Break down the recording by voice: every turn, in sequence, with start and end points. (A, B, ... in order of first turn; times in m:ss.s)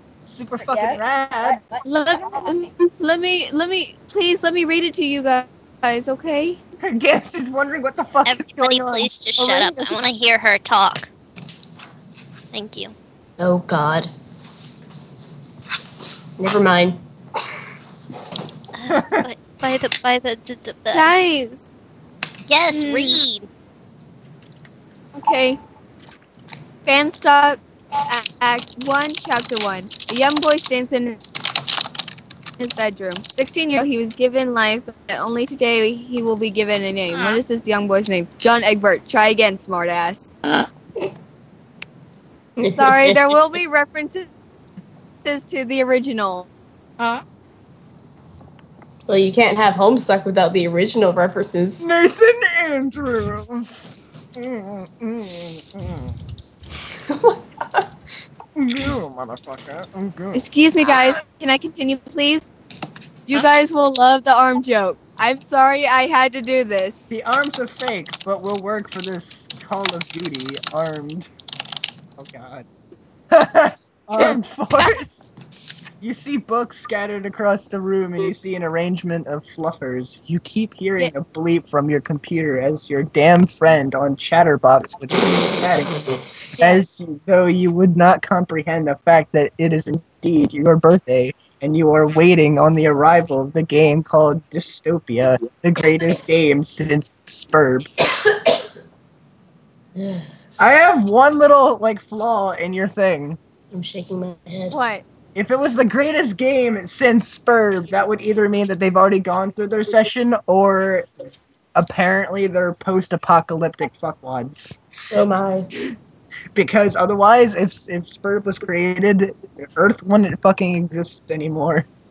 0:00.3-0:01.6 A
0:00.6-0:02.7 B
0:01.8-0:06.6 C
0:06.8-0:09.1 A
0:08.2-0:11.1 D
0:09.4-0:10.0 E
0:12.5-0:12.9 D
0:13.4-0:14.1 E
0:16.4-0:17.0 E
0:18.7-0:21.3 D
0:18.9-0:19.2 A
0:20.9-0:21.6 C
0:22.5-0:23.5 D
0:22.7-0:23.2 C
0:25.2-0:25.6 C
0:26.8-0:31.2 C
0:32.6-0:40.3 C
0:42.6-0:43.4 E
0:42.7-0:44.3 C
0:45.2-0:46.5 C
0:49.1-0:51.8 E
0:51.8-0:56.2 A
0:57.1-0:57.9 E
0:58.6-1:00.5 A
1:00.3-1:02.5 C
1:03.3-1:07.1 C
1:07.1-1:11.3 A
1:12.2-1:12.7 A
1:13.3-1:15.3 A
1:16.0-1:26.0 A
1:26.6-1:26.9 C
1:26.6-1:37.9 A
1:40.0-1:40.6 E
1:40.6-1:43.4 A
1:43.7-1:44.8 E
1:44.7-1:45.0 C
1:45.4-1:51.1 A
1:51.8-1:54.8 A
1:55.1-1:55.7 E
1:56.6-2:01.9 A